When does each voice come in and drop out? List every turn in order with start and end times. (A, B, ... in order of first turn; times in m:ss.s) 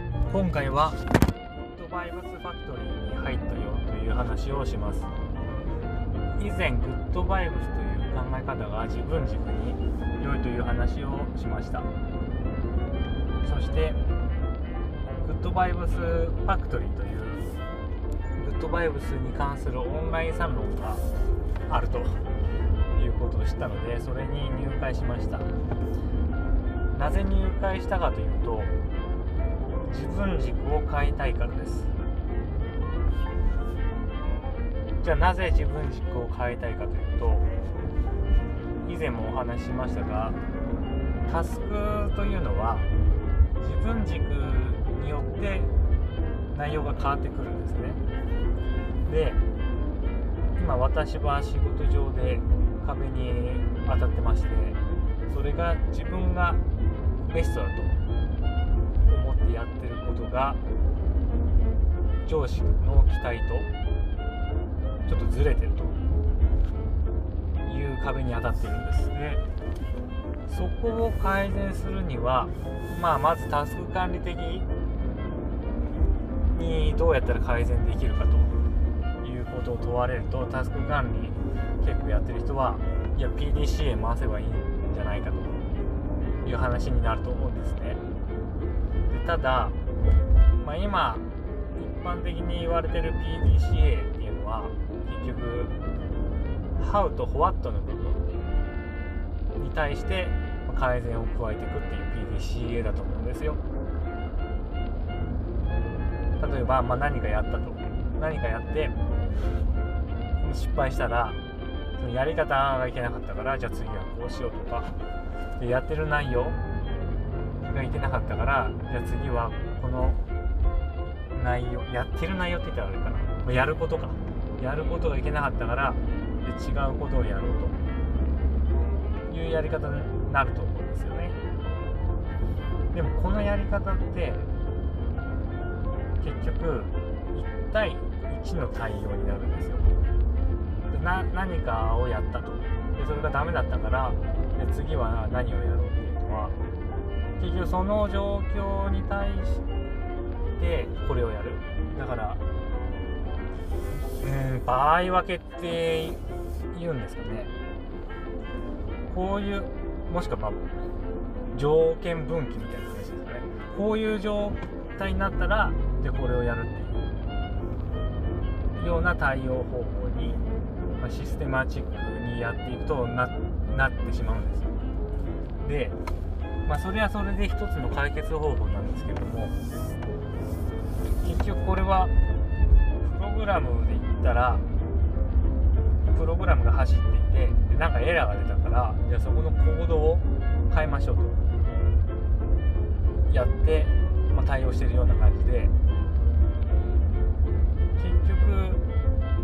0:00.3-0:01.0 A
0:01.5-0:05.1 A
0:06.4-0:11.9 A
0:13.4-0:14.0 A
0:15.2-0:17.4 A
0:18.4-0:21.0 A
0:21.7-0:22.2 A
0:23.0-0:25.6 A
0:26.9-0:28.8 A
0:29.9-0:31.9 A
0:35.0-0:37.5 A
0:38.8-0:40.4 A
0:41.3-0:42.9 A
0:43.6-0:45.7 A
0:46.5-0:48.0 A
0:49.1-0:49.4 A
0:50.6-0:56.6 A
0:57.2-0:58.0 A
0:59.1-1:00.6 A
1:02.2-1:03.7 A
1:05.1-1:06.0 A
1:07.6-1:09.4 A
1:10.5-1:14.7 A
1:16.5-1:18.5 A
1:19.2-1:25.6 A
1:26.4-1:28.0 A
1:29.1-1:29.8 A
1:30.6-1:31.2 A
1:31.8-1:35.7 A
1:36.8-1:38.2 A
1:39.6-1:43.6 A
1:46.4-1:48.9 A
1:50.4-1:51.4 A
1:52.0-1:55.0 A
1:55.6-1:56.6 A
1:57.6-2:00.2 A
2:01.3-2:07.8 A
2:09.3-2:11.4 A
2:12.9-2:14.5 A
2:16.2-2:19.9 A
2:20.9-2:26.6 A
2:27.4-2:29.6 A
2:30.6-2:32.4 A
2:34.2-2:36.2 A
2:36.7-2:37.5 A
2:39.1-2:40.6 A
2:41.5-2:47.0 A
2:48.8-2:50.4 A
2:50.9-2:54.8 A
2:55.6-2:56.0 A
2:56.6-2:59.6 A
3:01.2-3:02.1 A
3:03.0-3:04.6 A
3:06.1-3:11.4 A
3:13.3-3:15.7 A
3:18.0-3:18.8 A